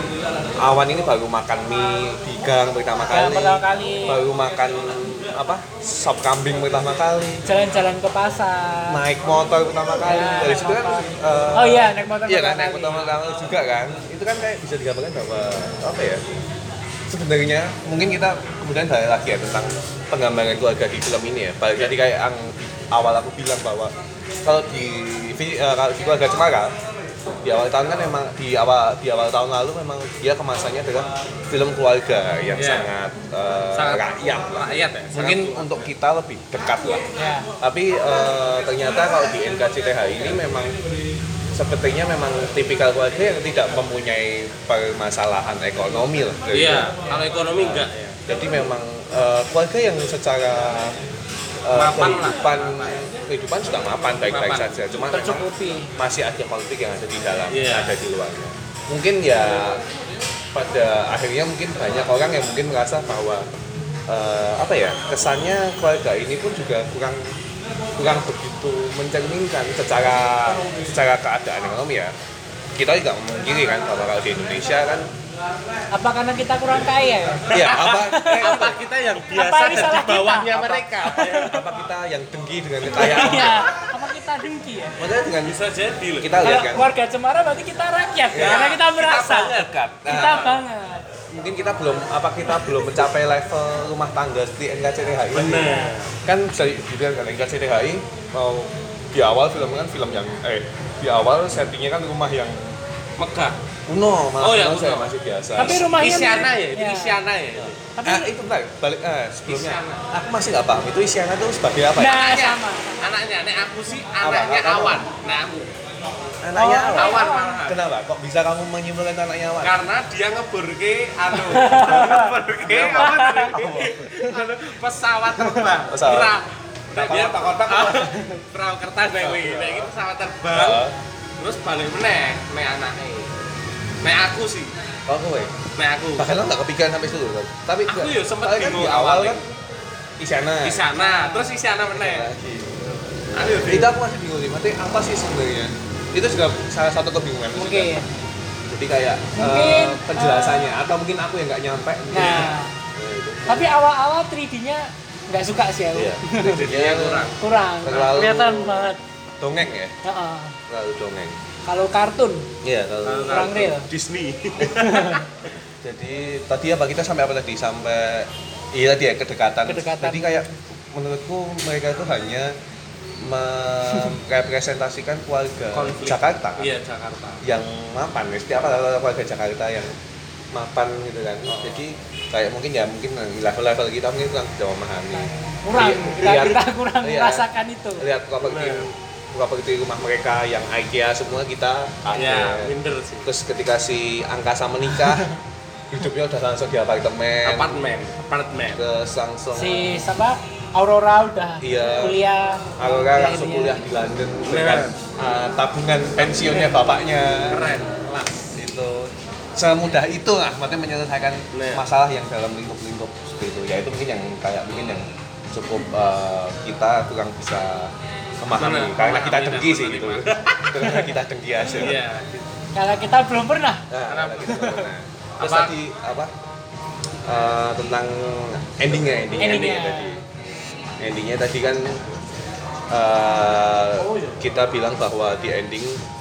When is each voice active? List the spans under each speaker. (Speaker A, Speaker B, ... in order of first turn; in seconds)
Speaker A: 0.6-7.4, 8.9-16.2, 17.1-26.7, 27.4-37.0, 37.6-40.8, 41.5-46.9, 47.6-50.9, 51.6-59.8, 60.5-63.5, 64.1-67.2, 68.0-72.1, 72.8-75.1, 77.5-78.8, 81.5-83.7, 85.0-85.6, 86.2-86.9, 88.3-88.7, 89.5-90.6, 91.3-102.8, 103.9-105.8, 107.6-112.2, 114.2-115.0, 116.4-119.8, 122.6-124.1, 125.9-126.3, 126.9-128.1, 129.2-129.9, 130.5-130.9, 135.1-135.6, 136.2-139.4, 140.2-140.9, 141.9-142.8, 143.4-147.9, 148.7-153.7, 155.9-157.3, 157.8-159.9, 160.7-161.4, 162.6-163.6, 165.8-172.5, 173.2-176.7, 177.4-179.9, 180.5-187.4, 188.0-192.7, 193.2-195.3, 195.9-197.8, 198.8-199.9, 201.6-202.2, 202.8-207.8, 208.5-222.0, 223.9-226.3, 227.2-230.2, 231.0-232.0, 232.9-236.0
Speaker B: 3.1-4.2, 7.4-9.0, 10.0-13.1, 37.2-37.5, 55.1-55.9, 75.9-78.6, 79.3-81.6, 82.9-85.0, 86.4-91.1, 105.6-107.2, 107.9-108.3, 112.0-113.1, 116.5-117.6, 121.3-122.3, 122.9-123.5, 140.9-141.5, 147.6-148.1, 149.3-150.7, 152.1-152.7, 153.5-156.6, 157.4-159.0, 160.0-160.6, 161.7-162.5, 163.3-163.9, 164.6-165.2, 169.7-170.6, 185.1-188.1, 199.5-203.8, 222.7-223.9, 224.5-224.9, 229.4-230.2
Speaker C: 32.5-32.9, 33.7-35.9, 46.5-48.2, 51.7-53.1, 54.3-54.8, 57.5-57.9, 77.5-81.6, 83.0-83.5, 85.4-86.4, 88.3-90.5, 95.3-96.1, 103.2-103.6, 104.4-107.8, 109.5-110.0, 112.0-115.7, 116.9-117.8, 119.6-130.8, 131.4-133.3, 134.0-134.7, 135.8-136.3, 137.8-139.4, 140.6-142.3, 142.8-143.9, 156.4-157.4, 163.0-165.2, 175.7-177.4, 181.5-181.8, 188.4-188.9, 192.1-193.3, 197.4-198.8, 204.5-204.9, 207.5-208.4, 211.5-211.8, 218.6-221.0, 221.7-222.4, 224.1-224.7, 225.4-225.7, 229.4-229.8, 234.0-234.4